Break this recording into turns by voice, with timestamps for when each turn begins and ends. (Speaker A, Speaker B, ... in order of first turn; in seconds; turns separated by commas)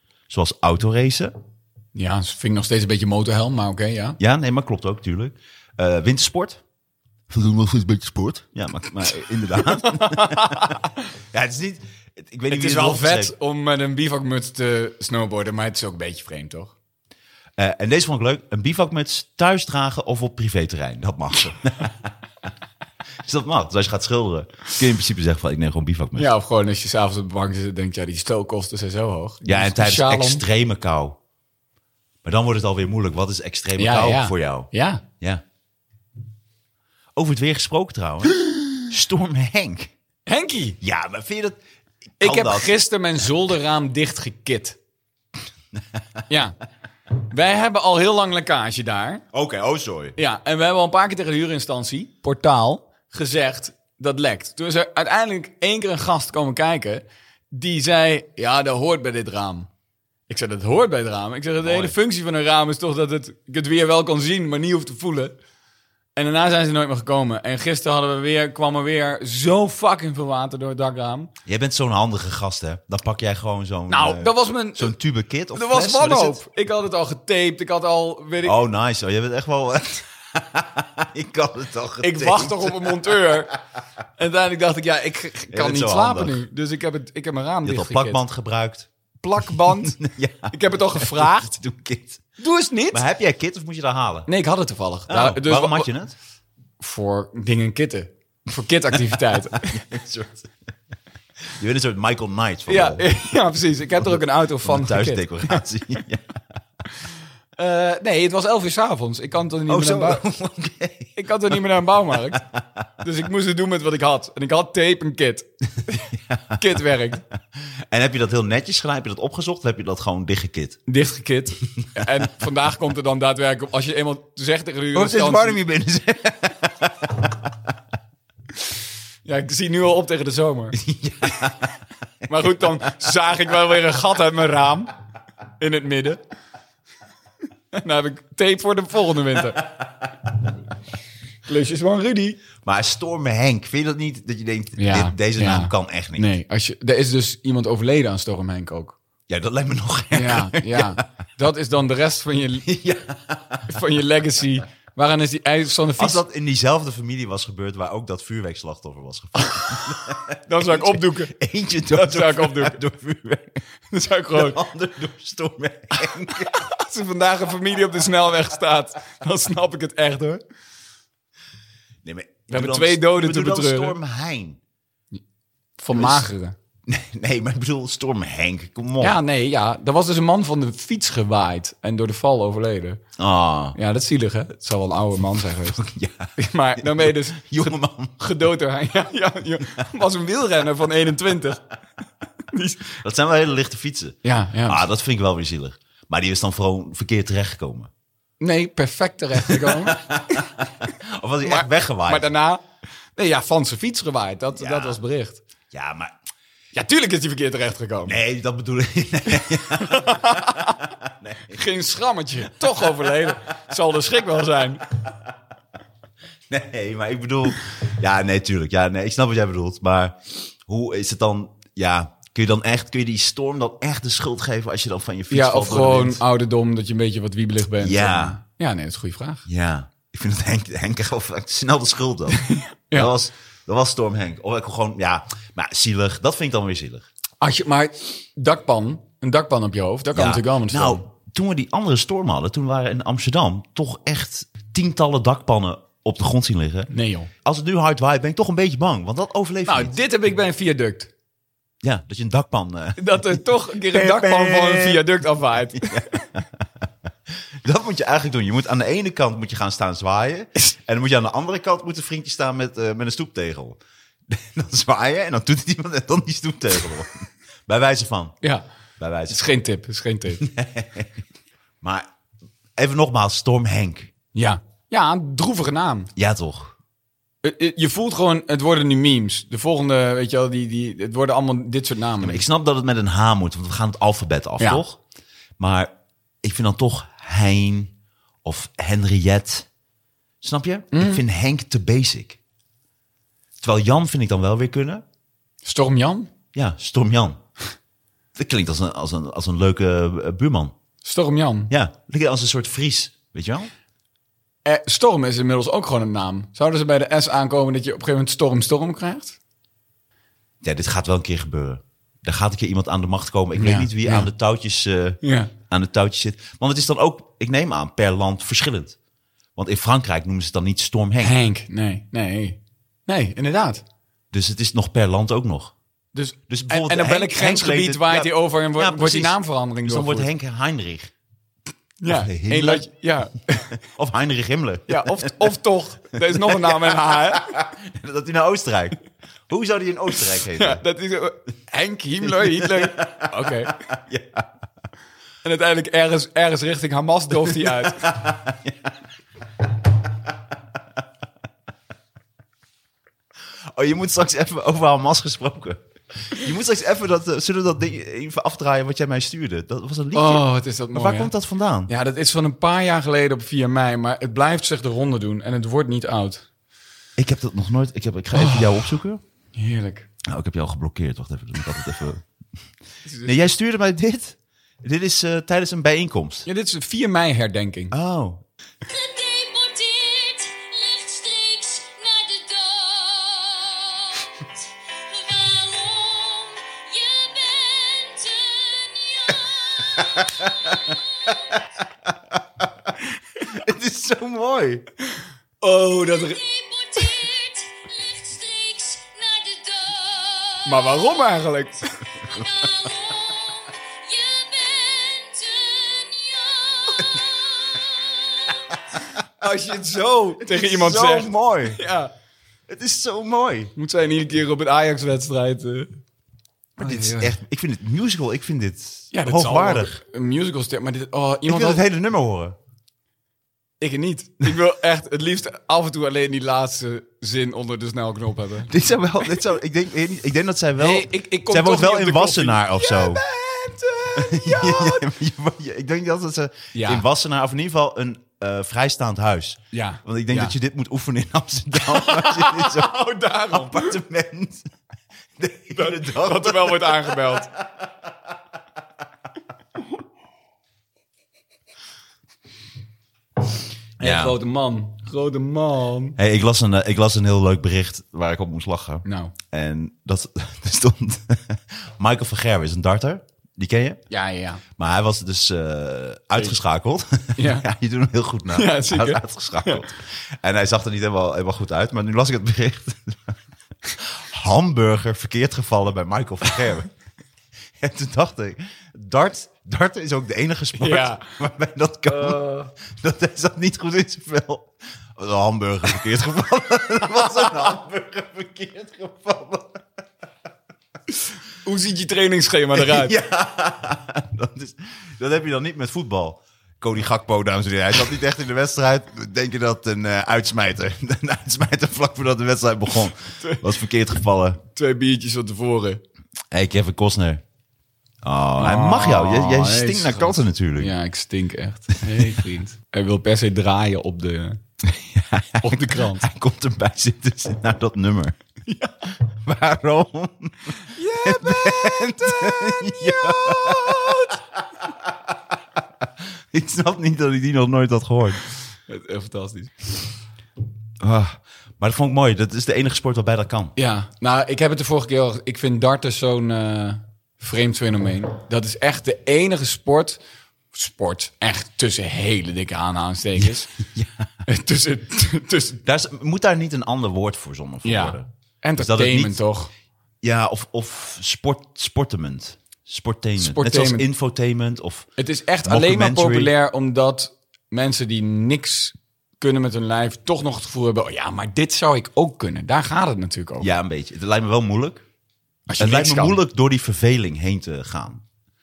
Speaker A: 0.3-1.3, Speaker B: 1.9-4.2, Speaker A: 4.2-6.6, Speaker A: 7.3-10.8, Speaker B: 9.6-10.9, Speaker A: 11.3-13.3, Speaker B: 12.5-16.7, Speaker A: 17.6-22.1, Speaker A: 23.2-26.3, Speaker B: 26.2-30.4, Speaker A: 29.4-31.2, Speaker A: 32.2-35.4, Speaker B: 33.8-35.0, Speaker A: 37.1-39.9, Speaker B: 40.3-40.8, Speaker A: 40.8-41.6, Speaker A: 42.2-42.7, Speaker B: 42.2-44.8, Speaker A: 45.8-46.0, Speaker B: 46.3-46.5, Speaker B: 47.3-49.2, Speaker A: 49.3-50.1, Speaker B: 50.1-59.7, Speaker B: 60.3-65.3, Speaker A: 61.6-61.9, Speaker B: 66.2-71.3, Speaker A: 71.5-76.4, Speaker B: 73.9-74.9, Speaker B: 75.5-78.6, Speaker A: 78.4-83.4, Speaker B: 82.0-83.5, Speaker B: 84.2-88.2, Speaker A: 85.5-86.4, Speaker A: 87.6-88.9, Speaker B: 89.2-90.0, Speaker A: 89.7-92.2, Speaker B: 90.5-91.5, Speaker B: 92.4-93.0, Speaker A: 92.9-94.3, Speaker B: 94.3-95.9, Speaker A: 95.1-96.1, Speaker B: 96.8-99.8, Speaker A: 99.1-100.5, Speaker A: 101.5-103.0, Speaker B: 102.7-105.6, Speaker A: 104.0-106.3, Speaker B: 107.6-110.2, Speaker A: 109.7-111.6, Speaker B: 111.2-112.4, Speaker A: 112.3-112.7, Speaker B: 113.0-117.2, Speaker A: 116.1-116.6, Speaker A: 117.6-120.8, Speaker B: 120.9-125.6, Speaker A: 124.9-127.7, Speaker B: 129.2-130.8, Speaker A: 130.7-132.8, Speaker B: 132.3-134.9, Speaker B: 135.6-136.2, Speaker B: 137.7-139.6, Speaker B: 141.4-142.4, Speaker A: 142.6-146.3, Speaker B: 144.8-149.0, Speaker A: 149.3-151.0, Speaker B: 150.1-152.7, Speaker A: 152.6-153.8, Speaker B: 153.7-156.2, Speaker A: 156.0-163.6, Speaker B: 159.4-159.9, Speaker B: 160.4-161.3, Speaker B: 161.9-162.8, Speaker B: 163.9-164.6, Speaker A: 164.3-166.6, Speaker B: 166.1-170.4, Speaker A: 172.0-174.6, Speaker B: 172.5-173.9, Speaker B: 175.8-176.5, Speaker A: 175.9-176.2, Speaker A: 176.9-179.2, Speaker B: 179.0-183.0, Speaker A: 183.2-183.8, Speaker B: 183.7-185.8, Speaker A: 185.7-188.3, Speaker B: 186.4-191.6, Speaker B: 192.5-192.9, Speaker A: 193.0-197.9, Speaker B: 194.2-194.8, Speaker B: 198.4-200.5, Speaker A: 199.4-202.3, Speaker B: 201.4-202.6, Speaker B: 203.2-205.4, Speaker A: 204.6-205.0, Speaker A: 205.7-206.1, Speaker B: 206.7-208.2, Speaker A: 208.1-211.6, Speaker B: 209.4-210.8, Speaker B: 211.5-214.8, Speaker A: 212.6-213.3, Speaker A: 216.5-226.2, Speaker B: 225.3-229.4, Speaker A: 227.8-228.4, Speaker A: 229.4-237.1, Speaker B: 232.3-233.1, Speaker B: 237.4-241.0, Speaker A: 240.1-246.9, Speaker B: 246.9-247.3, Speaker A: 247.4-249.9, Speaker B: 249.7-251.1, Speaker A: 251.8-255.0, Speaker B: 253.0-256.2, Speaker A: 255.7-256.8, Speaker A: 257.6-268.4, Speaker A: 269.0-269.4, Speaker B: 269.3-270.5, Speaker A: 270.4-271.2, Speaker A: 271.8-272.1, Speaker A: 272.8-274.1, Speaker B: 274.3-276.1, Speaker A: 276.1-276.7, Speaker B: 277.4-282.4, Speaker A: 282.2-285.0, Speaker A: 285.6-285.9, Speaker A: 286.4-287.9, Speaker A: 288.4-289.7, Speaker A: 290.4-292.4, Speaker B: 290.9-291.2, Speaker A: 293.6-295.0, Speaker B: 295.6-296.3, Speaker A: 296.5-297.4, Speaker A: 298.4-300.7, Speaker B: 301.0-301.7, Speaker A: 301.7-303.7, Speaker B: 304.6-309.4, Speaker A: 310.6-318.9, Speaker B: 313.5-314.3, Speaker B: 315.2-315.5, Speaker A: 319.6-321.4, Speaker B: 321.2-323.8, Speaker A: 324.3-325.7, Speaker B: 326.1-330.3, Speaker A: 326.5-331.1, Speaker B: 332.0-333.7, Speaker A: 332.1-332.9, Speaker A: 333.8-335.5, Speaker B: 334.9-337.6, Speaker A: 336.2-340.8, Speaker B: 340.5-343.7, Speaker A: 342.2-344.5, Speaker B: 345.4-348.1, Speaker A: 347.4-348.9, Speaker A: 353.7-361.9, Speaker B: 360.1-361.3, Speaker B: 361.9-366.4, Speaker A: 367.2-369.2, Speaker B: 368.3-368.9, Speaker B: 369.5-370.1, Speaker A: 370.2-372.2, Speaker B: 373.0-373.5, Speaker A: 373.2-376.4, Speaker B: 376.4-377.9, Speaker A: 377.9-378.4, Speaker C: 378.9-390.2, Speaker A: 390.0-390.9, Speaker A: 392.1-394.8, Speaker B: 395.6-396.4, Speaker C: 395.7-401.0, Speaker B: 400.6-401.9, Speaker C: 402.2-408.8, Speaker B: 409.4-412.1, Speaker A: 410.4-411.8, Speaker A: 412.7-413.7, Speaker B: 413.8-415.9, Speaker A: 416.8-420.0, Speaker B: 416.8-417.4, Speaker B: 419.1-421.8, Speaker A: 421.4-422.6, Speaker B: 423.8-428.7, Speaker A: 428.7-433.2, Speaker B: 430.8-435.1, Speaker A: 434.1-444.7, Speaker B: 436.7-437.0, Speaker B: 439.7-440.5, Speaker B: 441.8-444.0, Speaker A: 445.4-447.9, Speaker B: 445.8-447.5, Speaker B: 454.0-456.2, Speaker A: 454.0-454.4, Speaker A: 456.2-464.0, Speaker B: 459.0-459.3, Speaker B: 464.1-464.6, Speaker A: 464.8-476.9, Speaker B: 467.4-467.7, Speaker B: 468.5-469.9, Speaker A: 477.8-489.9, Speaker B: 480.8-481.3, Speaker B: 482.1-482.7, Speaker B: 491.6-493.1, Speaker A: 492.7-504.6, Speaker B: 504.7-506.0, Speaker A: 506.5-507.4, Speaker A: 508.2-510.9, Speaker B: 508.6-514.6, Speaker A: 514.8-518.4, Speaker B: 515.6-516.3, Speaker B: 518.7-518.9, Speaker A: 519.2-528.4, Speaker B: 520.9-524.3, Speaker B: 528.9-529.7, Speaker A: 531.0-533.7, Speaker B: 533.8-540.2, Speaker B: 540.7-543.7, Speaker A: 543.4-544.3, Speaker B: 544.5-545.8, Speaker A: 545.8-549.4, Speaker B: 547.8-549.7, Speaker A: 550.2-555.1, Speaker B: 553.4-554.0, Speaker B: 555.2-563.7, Speaker A: 555.6-556.5, Speaker A: 563.6-565.0, Speaker B: 565.7-566.4, Speaker A: 565.7-568.2